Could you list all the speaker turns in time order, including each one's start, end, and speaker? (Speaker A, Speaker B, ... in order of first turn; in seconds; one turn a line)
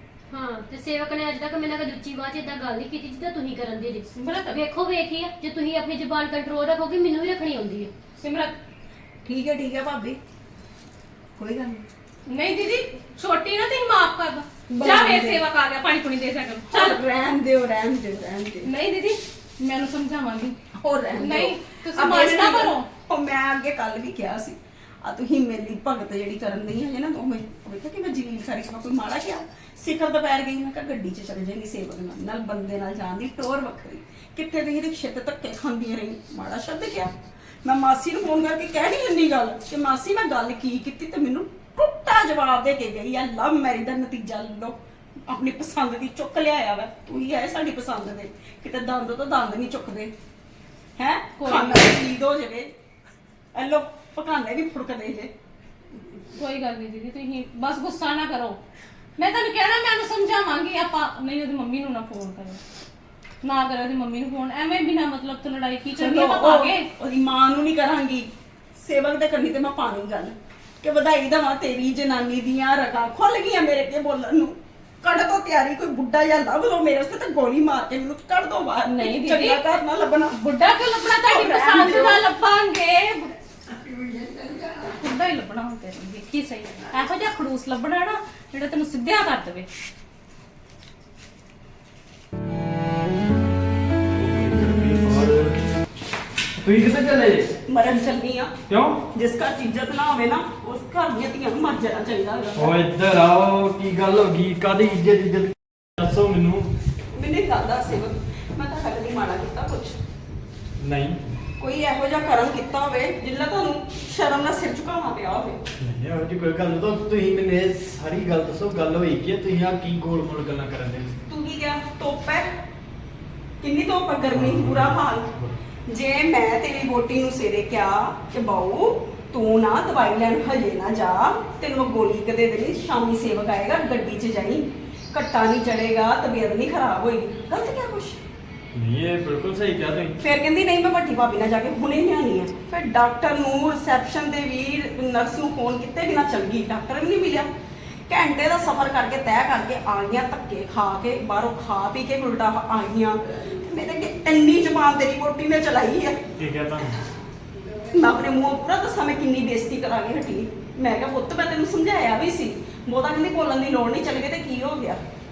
Speaker A: 0.3-7.9
Speaker B: 4.1-4.6
Speaker B: 8.2-8.6
Speaker C: 9.2-10.2
Speaker C: 11.4-11.8
Speaker B: 12.3-17.0
Speaker C: 14.7-15.4
Speaker C: 16.7-18.7
Speaker B: 18.6-20.6
Speaker C: 20.8-37.1
Speaker B: 21.2-22.9
Speaker C: 37.6-44.7
Speaker C: 45.3-50.1
Speaker C: 51.0-52.7
Speaker B: 51.4-51.9
Speaker C: 53.5-55.3
Speaker B: 56.3-58.6
Speaker B: 59.2-62.6
Speaker B: 63.4-66.9
Speaker C: 66.0-80.4
Speaker B: 78.9-79.6
Speaker B: 80.3-83.3
Speaker C: 81.2-82.2
Speaker C: 83.7-85.0
Speaker B: 85.0-89.7
Speaker D: 94.1-95.7
Speaker D: 96.6-97.5
Speaker C: 97.7-98.5
Speaker D: 98.7-99.0
Speaker C: 99.1-102.7
Speaker D: 102.5-106.7
Speaker C: 107.1-110.0
Speaker D: 110.8-111.2
Speaker C: 111.6-115.6
Speaker D: 115.8-121.2
Speaker C: 121.3-122.5
Speaker C: 123.6-125.3
Speaker D: 124.3-125.6
Speaker C: 125.9-138.2
Speaker D: 138.7-140.2
Speaker C: 140.2-147.5
Speaker C: 148.1-156.2
Speaker D: 156.4-157.0
Speaker C: 157.9-165.0